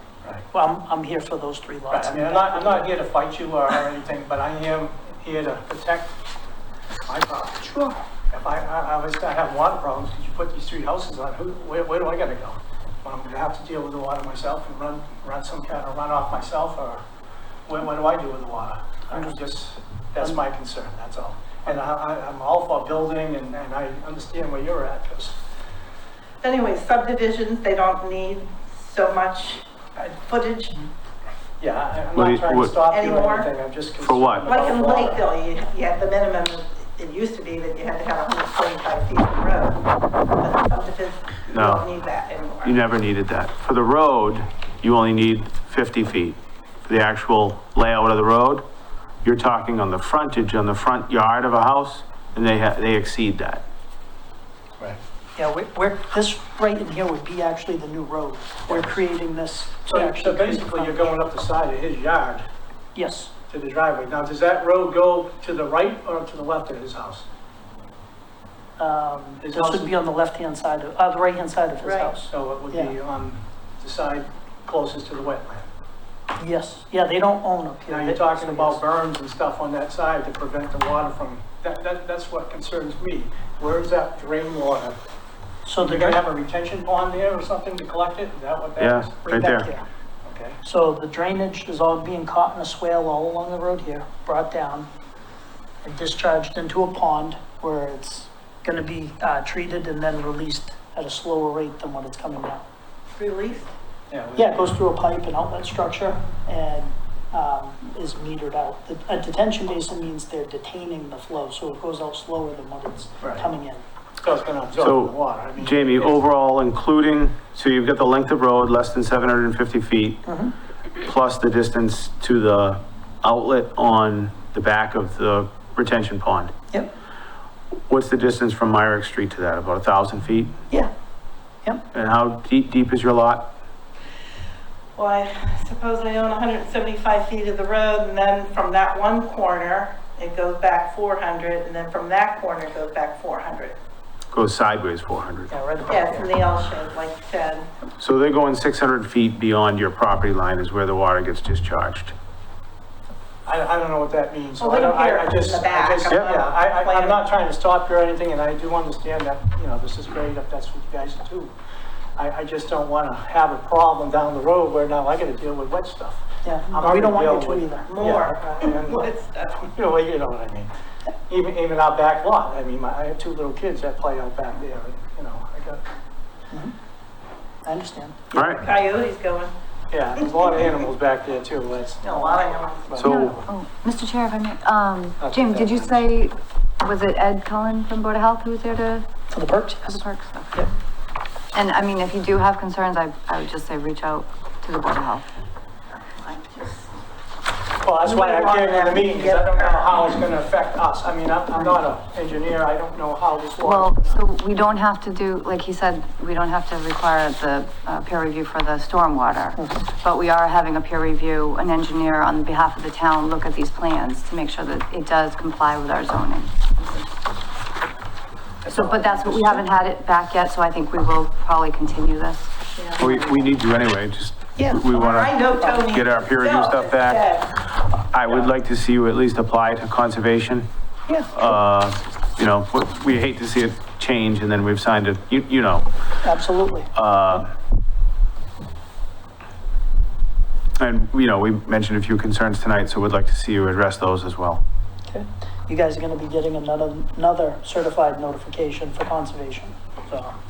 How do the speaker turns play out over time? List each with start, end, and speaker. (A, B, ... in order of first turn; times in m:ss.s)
0:00.5-0:02.9 A
0:01.9-0:06.1 B
0:07.1-0:07.8 B
0:08.3-0:17.0 B
0:17.7-0:25.4 B
0:26.4-0:29.6 C
0:30.3-0:30.8 C
0:31.6-0:35.2 B
0:32.1-0:32.8 D
0:32.8-0:33.5 C
0:34.0-0:34.5 D
0:34.4-0:39.8 C
0:40.4-0:42.8 C
0:41.5-0:41.9 D
0:42.6-0:48.6 D
0:49.2-0:53.6 D
0:55.4-1:01.1 A
0:58.7-0:59.0 B
0:59.9-1:02.4 B
1:02.9-1:03.3 A
1:03.5-1:07.2 B
1:08.8-1:12.9 A
1:09.4-1:10.0 B
1:11.8-1:12.1 C
1:12.2-1:15.7 B
1:16.4-1:18.8 A
1:17.9-1:25.0 B
1:25.6-1:26.2 A
1:25.8-1:29.3 B
1:28.8-1:29.7 D
1:29.2-1:29.8 A
1:30.2-1:30.6 B
1:30.6-1:34.9 A
1:35.8-1:42.6 A
1:43.2-1:43.7 C
1:44.1-1:44.8 B
1:44.4-1:53.8 A
1:53.2-1:53.5 B
1:54.2-1:56.1 B
1:54.8-2:00.3 D
2:00.2-2:00.5 A
2:01.0-2:06.5 D
2:07.9-2:10.6 D
2:11.9-2:13.5 D
2:15.0-2:23.8 C
2:24.3-2:25.5 D
2:25.5-2:26.3 A
2:25.9-2:27.7 C
2:28.0-2:32.1 D
2:33.4-2:41.5 B
2:34.6-2:37.2 C
2:42.2-2:50.7 B
2:46.4-2:47.9 A
2:47.8-2:49.6 C
2:51.3-2:55.8 B
2:57.6-2:58.4 A
2:58.3-2:58.6 D
2:58.5-2:59.5 C
2:59.9-3:03.4 B
3:02.0-3:03.0 C
3:02.9-3:03.4 D
3:03.0-3:09.1 E
3:05.2-3:06.0 B
3:09.3-3:10.7 A
3:09.8-3:10.6 E
3:11.5-3:15.3 E
3:16.2-3:16.8 C
3:17.8-3:24.2 B
3:18.0-3:20.2 C
3:23.6-3:37.1 E
3:38.6-3:39.6 B
3:38.7-3:43.5 E
3:43.0-3:50.7 D
3:44.7-3:47.6 C
3:45.4-3:45.9 A
3:48.2-3:48.5 B
3:51.3-3:56.1 D
3:56.2-3:57.4 A
3:56.9-3:57.5 D
4:00.8-4:04.6 D
4:05.1-4:10.4 A